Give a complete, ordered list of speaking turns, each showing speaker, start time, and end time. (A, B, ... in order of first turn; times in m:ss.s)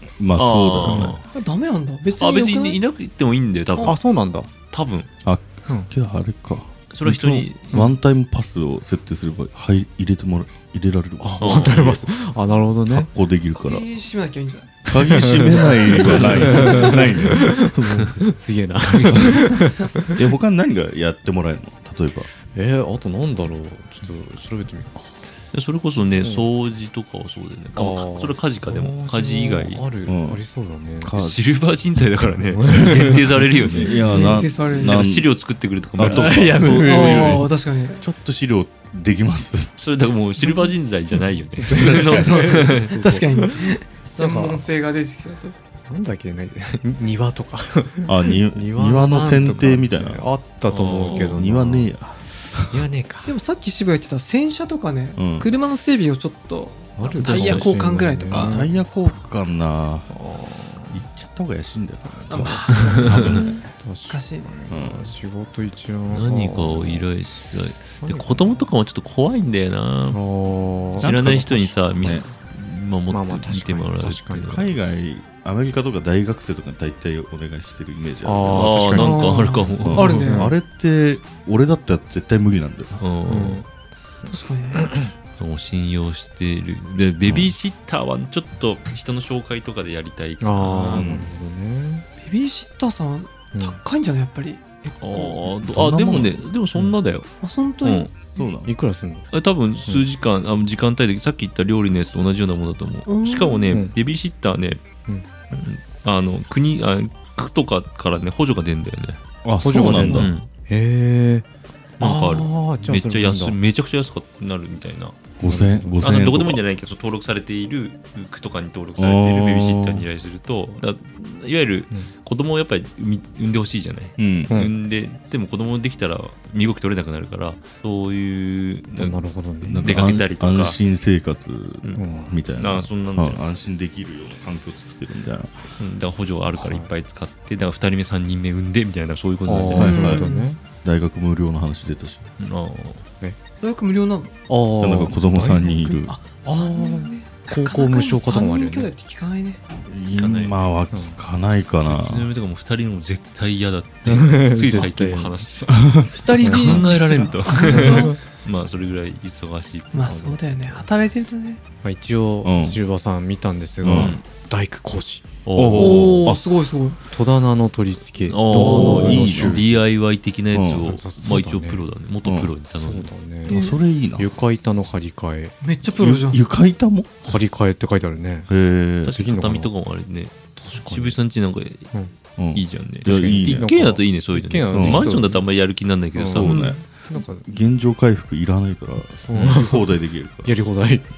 0:00.2-0:01.2 A
0:00.4-0:01.2 B
0:01.2-0:02.8 C
0:02.2-0:04.0 B
0:03.8-0:04.5 D
0:04.7-0:05.1 B
0:05.2-0:12.1 A
0:05.7-0:05.9 D
0:06.9-0:07.7 B
0:11.2-0:13.1 D
0:11.4-0:11.9 B
0:12.9-0:13.9 A
0:13.5-0:14.9 C
0:14.9-0:17.6 A
0:14.9-0:20.2 D
0:16.0-0:16.5 B
0:16.4-0:17.0 C
0:19.1-0:19.5 A
0:20.2-0:22.3 A
0:22.5-0:25.3 D
0:25.5-0:29.9 B
0:26.2-0:26.5 D
0:27.8-0:31.2 D
0:30.1-0:30.4 A
0:31.0-0:31.4 A
0:31.2-0:36.6 B
0:32.5-0:33.3 D
0:32.7-0:35.3 A
0:33.9-0:35.1 C
0:34.1-0:34.4 D
0:36.0-0:39.7 A
0:36.0-0:37.5 D
0:36.8-0:38.1 C
0:39.8-0:42.9 B
0:41.6-0:44.6 D
0:41.7-0:45.6 C
0:41.9-0:42.3 A
0:45.9-0:52.0 D
0:48.1-0:50.3 A
0:50.7-0:51.4 B
0:51.1-0:52.8 A
0:52.7-0:53.3 D
0:53.2-0:58.7 C
0:55.2-0:55.5 A
0:57.0-0:58.7 D
0:57.2-0:57.7 B
0:58.3-1:00.3 A
1:00.3-1:01.0 D
1:00.9-1:02.7 A
1:02.1-1:07.1 D
1:02.3-1:04.6 C
1:04.7-1:05.2 A
1:06.1-1:10.2 B
1:08.0-1:08.6 D
1:10.1-1:11.1 D
1:10.9-1:14.7 B
1:11.0-1:12.3 A
1:12.0-1:12.4 D
1:13.1-1:14.7 D
1:14.5-1:18.8 A
1:18.2-1:20.6 D
1:18.5-1:20.3 B
1:18.8-1:20.5 C
1:19.8-1:23.0 A
1:23.0-1:23.6 B
1:23.3-1:23.7 D
1:24.3-1:24.9 C
1:24.8-1:25.1 D
1:25.4-1:31.2 B
1:27.2-1:27.5 A
1:30.4-1:32.1 D
1:30.9-1:31.3 A
1:32.2-1:35.5 C
1:35.0-1:37.3 B
1:35.6-1:36.4 A
1:37.4-1:38.4 C
1:37.8-1:38.1 B
1:38.4-1:38.7 A
1:38.7-1:39.3 D
1:39.3-1:44.8 B
1:43.1-1:43.8 C
1:45.5-1:49.2 B
1:49.4-1:50.3 A
1:49.6-1:51.5 D
1:49.8-1:50.5 B
1:52.0-1:53.6 D
1:52.0-1:55.2 B
1:55.4-1:56.6 A
1:55.4-1:56.1 D
1:56.0-2:09.2 B
1:59.0-2:00.0 A
2:04.2-2:04.5 A
2:08.9-2:09.9 D
2:09.6-2:15.6 A
2:09.8-2:10.8 B
2:12.0-2:12.4 D
2:12.6-2:13.5 B
2:15.8-2:20.2 B
2:16.5-2:16.9 D
2:19.4-2:20.6 D
2:19.7-2:20.2 A
2:19.8-2:20.5 C
2:20.8-2:22.2 A
2:22.4-2:23.0 B
2:23.6-2:24.3 C
2:24.5-2:28.9 D
2:24.8-2:26.3 A
2:26.0-2:29.6 C
2:29.8-2:32.3 A
2:30.2-2:30.8 B
2:30.9-2:31.2 D
2:31.9-2:40.2 B
2:34.0-2:35.4 D
2:35.7-2:36.1 A
2:36.1-2:38.1 C
2:36.4-2:36.9 D
2:37.7-2:38.2 D
2:39.9-2:41.6 C
2:40.0-2:40.9 D
2:41.8-2:45.3 D
2:42.4-2:42.8 A
2:43.8-2:44.2 A
2:43.8-2:44.2 B
2:45.5-2:46.2 B
2:45.6-2:46.4 A
2:45.8-2:47.0 C
2:47.1-2:49.6 D
2:48.3-2:53.1 B
2:48.6-2:49.8 A
2:50.5-2:51.0 A
2:50.8-2:51.8 D
2:52.2-2:52.5 A
2:52.7-2:53.6 D
2:53.5-2:53.8 C
2:53.5-2:54.3 A
2:54.2-2:55.6 D
2:55.6-2:56.4 C
2:56.0-2:57.2 A
2:57.2-2:58.5 D
2:58.5-2:59.1 A
2:59.0-3:01.9 B
2:59.1-2:59.7 D
3:00.6-3:01.2 D
3:02.4-3:03.7 A
3:02.5-3:06.8 B
3:03.1-3:05.5 D
3:04.7-3:05.1 A
3:06.1-3:07.5 D
3:06.3-3:10.6 A
3:09.2-3:11.1 D